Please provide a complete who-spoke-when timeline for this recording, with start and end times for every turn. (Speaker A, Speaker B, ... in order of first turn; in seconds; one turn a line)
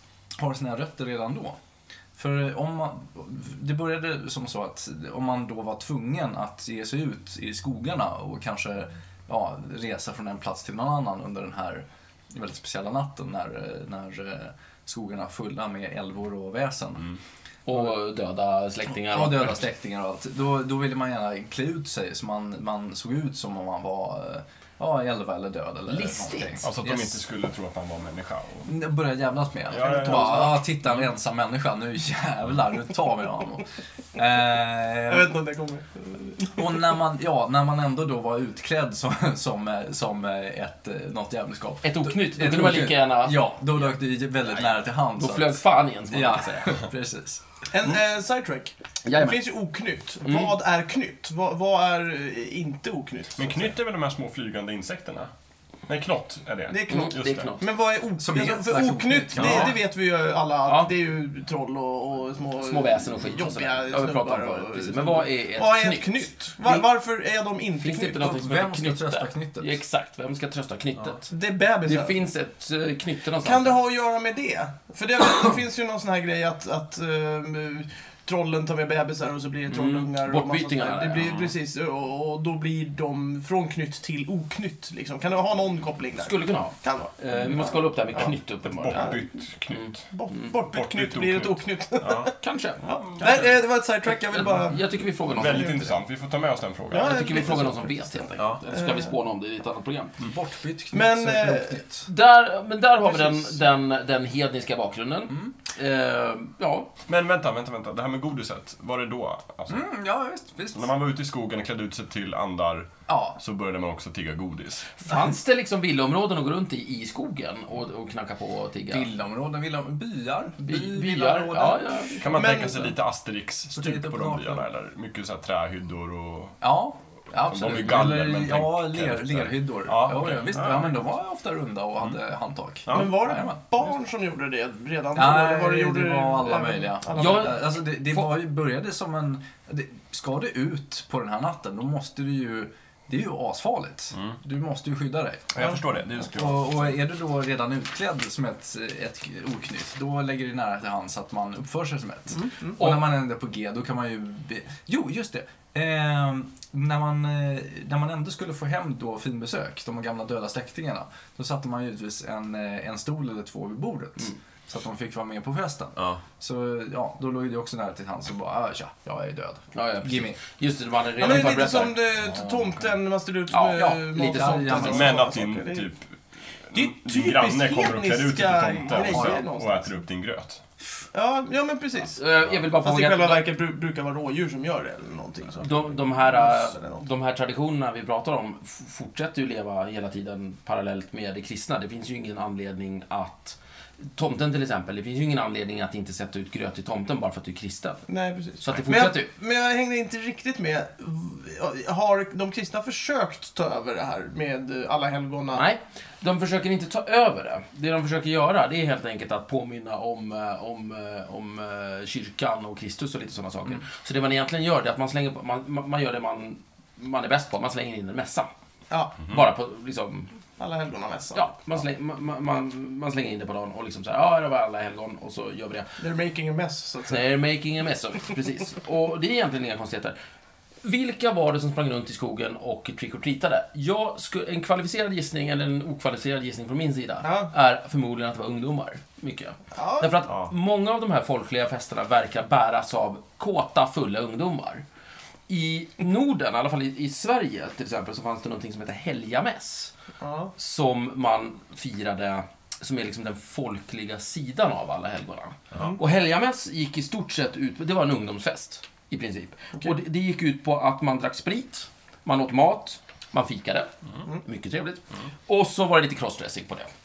Speaker A: 0.4-1.6
Speaker A: 2.1-17.1
Speaker B: 17.7-19.6
Speaker A: 18.9-27.2
Speaker B: 25.9-26.7
Speaker C: 26.6-28.7
Speaker A: 28.6-35.3
Speaker C: 29.7-31.0
Speaker D: 35.1-36.8
Speaker A: 36.5-47.4
Speaker B: 41.8-43.5
Speaker B: 45.1-46.8
Speaker D: 47.7-53.7
Speaker B: 49.0-49.4
Speaker B: 50.2-50.5
Speaker C: 53.4-55.3
Speaker C: 55.9-57.5
Speaker D: 56.7-68.2
Speaker B: 56.9-57.7
Speaker A: 58.2-59.7
Speaker B: 59.4-59.7
Speaker C: 59.4-59.7
Speaker B: 60.6-60.9
Speaker B: 62.6-66.9
Speaker B: 67.8-71.3
Speaker A: 68.1-69.8
Speaker D: 71.3-72.2
Speaker B: 71.8-73.8
Speaker D: 73.4-87.8
Speaker B: 79.7-81.3
Speaker C: 81.2-81.5
Speaker B: 86.2-89.2
Speaker C: 88.6-93.6
Speaker B: 89.7-90.5
Speaker D: 90.1-92.3
Speaker B: 92.4-93.5
Speaker D: 92.9-94.8
Speaker B: 94.1-96.0
Speaker C: 95.3-97.2
Speaker D: 95.4-95.8
Speaker D: 96.9-99.1
Speaker B: 96.9-100.1
Speaker A: 100.2-102.1
Speaker D: 100.9-101.8
Speaker B: 102.0-106.9
Speaker C: 107.1-109.8
Speaker A: 109.7-110.9
Speaker C: 110.7-114.9
Speaker A: 113.1-113.4
Speaker B: 115.0-119.1
Speaker A: 118.9-122.3
Speaker B: 120.6-122.8
Speaker C: 122.2-126.6
Speaker D: 122.3-122.9
Speaker A: 123.7-124.7
Speaker A: 126.6-133.6
Speaker C: 127.4-131.0
Speaker C: 132.8-133.2
Speaker D: 132.9-137.6
Speaker A: 135.1-170.4
Speaker B: 137.1-138.3
Speaker C: 145.5-146.9
Speaker B: 152.8-153.0
Speaker B: 169.7-172.0
Speaker D: 171.2-175.9
Speaker A: 173.6-175.2
Speaker B: 174.1-175.0
Speaker C: 174.7-176.1
Speaker C: 176.7-180.6
Speaker D: 176.7-179.9
Speaker A: 179.0-179.4
Speaker D: 181.1-182.2
Speaker B: 182.1-183.4
Speaker D: 182.8-187.0
Speaker B: 185.6-193.6
Speaker B: 194.1-198.1
Speaker D: 198.1-205.6
Speaker B: 198.6-199.3
Speaker B: 205.5-218.5
Speaker D: 218.9-219.1
Speaker B: 219.2-220.3
Speaker D: 220.6-221.5
Speaker B: 221.3-225.9
Speaker D: 226.0-227.2
Speaker B: 227.1-230.2
Speaker B: 230.8-244.8
Speaker D: 237.2-237.5
Speaker D: 239.7-240.2
Speaker B: 245.5-249.9
Speaker D: 250.2-250.5
Speaker B: 250.6-266.9
Speaker D: 255.7-256.0